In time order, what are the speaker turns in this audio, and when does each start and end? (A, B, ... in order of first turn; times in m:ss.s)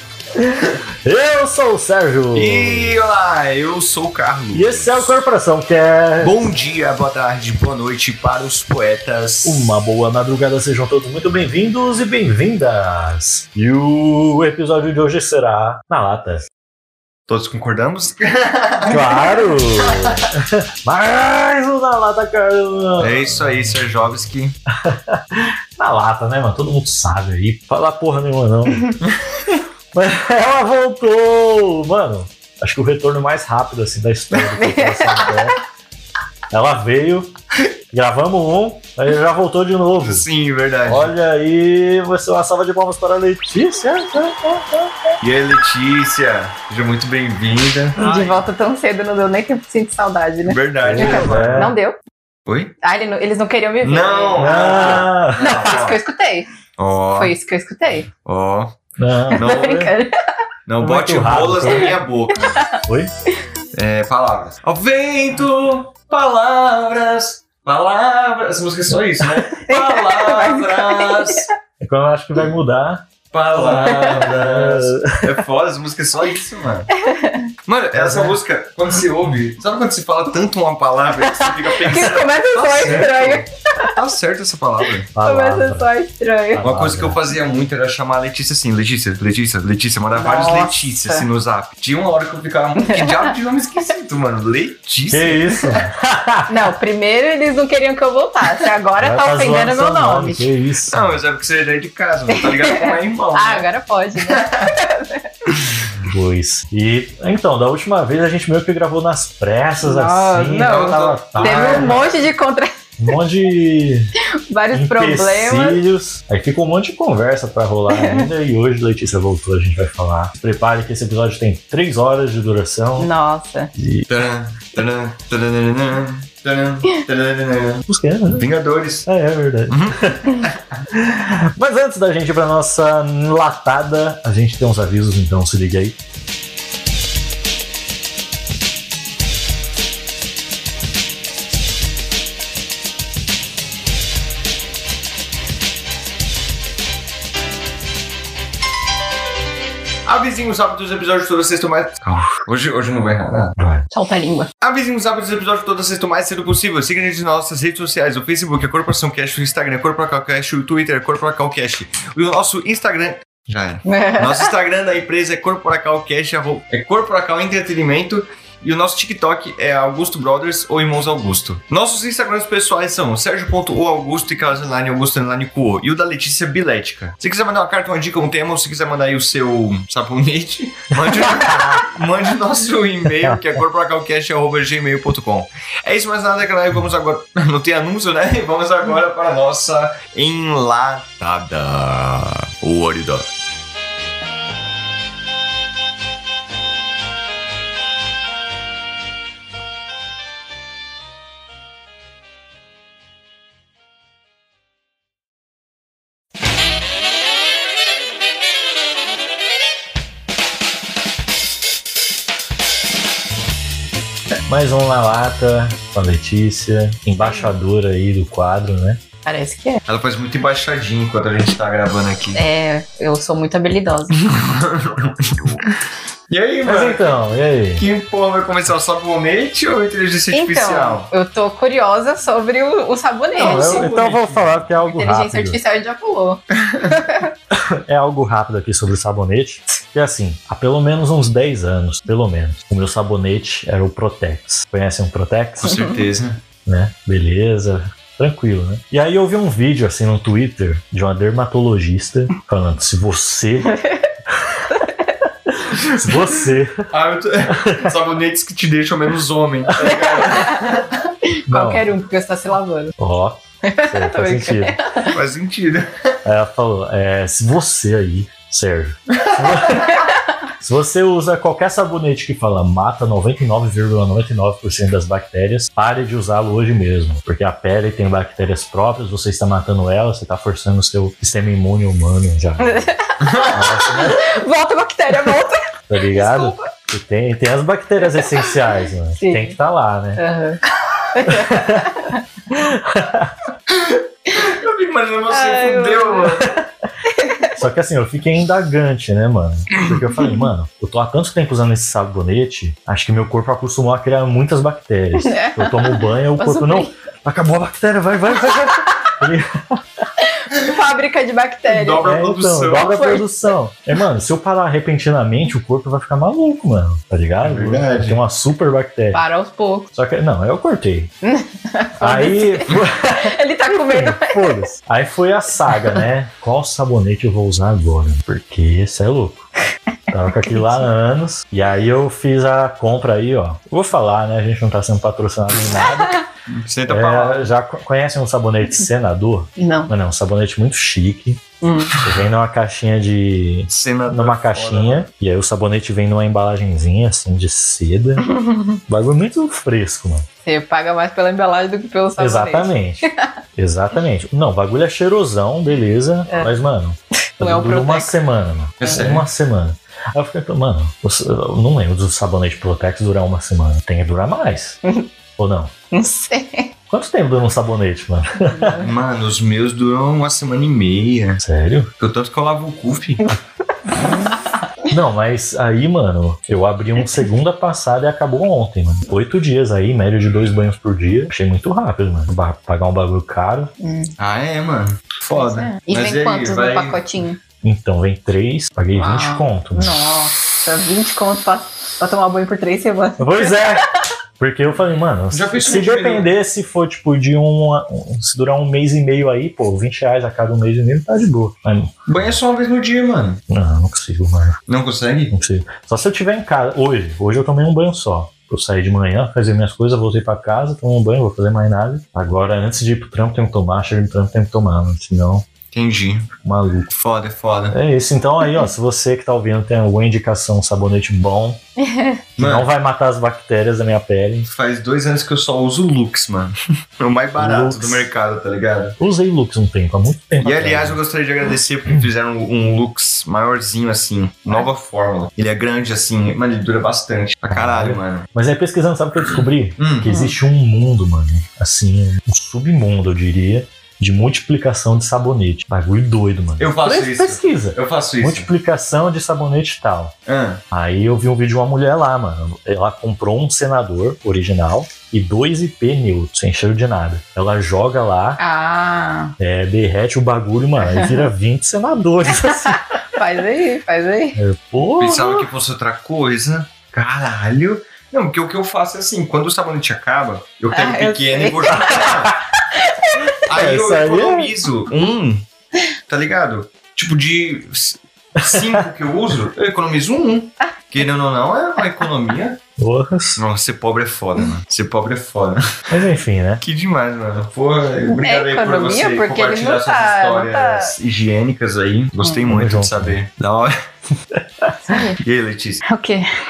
0:00.3-0:03.0 A
0:02.3-0:05.2 B
0:04.5-0:06.4 A
0:06.2-0:09.7 B
0:09.4-0:16.5 A
0:17.3-0:20.3 B
0:18.9-0:24.1 A
0:23.0-0:24.5 B
0:24.8-0:29.0 A
0:29.0-0:29.6 B
0:29.9-0:35.6 A
0:34.3-0:35.5 C
0:36.5-0:37.3 A
0:37.9-0:40.2 A
0:40.0-0:41.1 B
0:40.8-0:45.2 A
0:45.2-0:48.1 B
0:48.0-0:52.0 C
0:48.0-0:48.3 A
0:50.4-0:51.7 B
0:50.8-0:51.8 A
0:52.5-0:52.7 B
0:52.8-0:56.5 C
0:53.8-0:56.0 B
0:54.4-0:55.5 A
0:56.8-0:57.3 B
0:57.2-0:58.1 C
0:58.2-0:58.8 B
0:59.0-0:59.9 A
0:59.3-0:59.9 B
0:59.3-1:00.1 C
1:00.6-1:02.5 B
1:00.8-1:02.0 A
1:02.4-1:02.8 C
1:02.8-1:03.1 A
1:03.7-1:11.5 B
1:09.5-1:11.5 C
1:11.8-1:15.4 A
1:13.3-1:16.9 B
1:13.8-1:14.2 C
1:16.9-1:17.5 C
1:17.6-1:25.1 B
1:17.9-1:18.4 A
1:21.2-1:23.9 C
1:25.1-1:25.9 A
1:25.2-1:26.6 C
1:26.5-1:27.2 A
1:26.6-1:35.9 B
1:30.1-1:31.2 C
1:32.8-1:33.3 C
1:35.1-1:36.5 A
1:36.5-1:40.5 C
1:39.0-1:41.1 A
1:40.9-1:43.6 B
1:42.3-1:45.2 C
1:44.2-1:44.7 B
1:46.0-1:52.0 A
1:49.8-1:52.7 C
1:50.6-1:52.1 B
1:53.0-1:54.1 A
1:54.5-1:55.8 C
1:54.7-2:03.1 A
1:57.9-1:58.3 C
2:03.0-2:03.7 C
2:03.7-2:04.1 A
2:04.1-2:09.1 B
2:07.9-2:08.5 A
2:09.0-2:10.2 A
2:09.7-2:10.8 B
2:10.9-2:16.0 A
2:30.0-2:33.6 B
2:33.6-2:33.8 A
2:33.9-2:34.5 C
2:34.6-3:13.3 B
2:43.8-2:44.5 C
3:01.2-3:01.8 A
3:03.0-3:03.4 A
3:34.5-3:39.0 A
3:39.2-3:39.8 C
3:39.9-3:42.4 B
3:42.3-3:44.2 C
3:44.1-3:45.6 B
3:46.3-3:47.2 B
3:46.6-3:47.8 A
3:47.8-3:51.1 B
3:50.3-3:54.0 C
3:53.4-3:55.6 A
3:53.4-3:54.6 B
3:54.8-3:57.3 C
3:57.5-4:05.8 A
4:05.6-4:06.4 B
4:05.6-4:06.0 C
4:06.6-4:13.8 A
4:13.7-4:14.1 C
4:15.5-4:16.9 A
4:16.9-4:20.9 B
4:17.5-4:17.9 A
4:19.8-4:20.8 C
4:21.5-4:22.9 C
4:21.5-4:21.9 A
4:23.0-4:24.8 A
4:23.6-4:25.2 C
4:25.0-4:26.2 B
4:26.2-4:30.0 A
4:29.1-4:29.6 B
4:30.6-4:42.8 A
4:42.6-4:46.6 C
4:43.2-4:43.6 B
4:43.5-4:44.3 A
4:45.9-4:50.2 A
4:49.2-4:49.6 C
4:50.2-4:50.6 C
4:51.1-4:52.2 C
4:51.2-4:51.9 A
4:52.5-4:53.3 A
4:53.7-4:56.6 B
4:55.3-4:56.5 C
4:57.0-4:57.6 C
4:57.6-5:10.0 A
5:05.2-5:06.9 C
5:10.2-5:12.1 C
5:11.7-5:12.9 B
5:12.0-5:19.2 A
5:12.7-5:13.2 C
5:17.4-5:18.2 B
5:19.1-5:19.9 C
5:19.9-5:21.1 A
5:21.2-5:24.7 C
5:22.0-5:29.5 A
5:30.1-5:36.2 A
5:30.4-5:30.8 C
5:36.0-5:36.2 C
5:36.5-5:37.5 B
5:36.9-5:41.4 A
5:39.6-5:39.9 C
5:41.6-5:42.0 C
5:42.0-5:48.3 A
5:43.7-5:45.1 B
5:48.2-5:48.8 C
5:48.9-5:50.3 A
5:50.4-5:53.2 C
5:52.2-6:04.8 A
5:57.4-5:58.2 C
5:58.8-5:59.2 B
6:05.4-6:05.7 A
6:05.9-6:06.7 C
6:06.9-6:08.8 A
6:08.3-6:08.9 C
6:08.8-6:11.4 B
6:11.4-6:11.9 A
6:12.0-6:13.2 B
6:14.9-6:23.7 A
6:23.8-6:24.1 C
6:24.2-6:27.0 B
6:25.3-6:27.4 C
6:27.6-6:29.9 A
6:29.0-6:33.8 C
6:33.2-6:33.8 A
6:34.4-6:42.0 A
6:35.3-6:36.3 B
6:42.1-6:43.4 B
6:43.5-6:44.6 A
6:44.7-6:45.3 B
6:45.3-6:55.5 A
6:55.7-6:56.3 B
6:56.4-6:56.9 A
6:56.9-6:57.8 B
6:57.7-7:01.6 A
7:01.8-7:02.2 C
7:02.4-7:02.7 B
7:02.4-7:04.5 A
7:04.4-7:09.0 B
7:07.4-7:08.0 A
7:09.0-7:11.0 A
7:10.4-7:18.3 B
7:17.5-7:30.2 A
7:19.2-7:20.1 B
7:20.0-7:20.3 C
7:26.6-7:28.5 B
7:30.3-7:30.6 B
7:30.7-7:38.4 A
7:38.4-7:39.3 C
7:39.4-7:42.8 A
7:40.8-7:41.3 C
7:42.4-7:44.4 C
7:44.4-7:45.5 A
7:45.0-7:52.3 B
7:50.7-7:53.3 C
7:53.4-7:54.5 A
7:53.5-7:55.4 B
7:56.1-8:02.6 B
7:58.4-7:58.8 A
8:02.8-8:03.4 A
8:03.4-8:05.8 B
8:05.9-8:06.6 A
8:06.6-8:13.7 B
8:08.2-8:10.9 C
8:12.5-8:13.2 A
8:14.8-8:15.2 C
8:15.2-8:15.8 B
8:15.8-8:16.3 C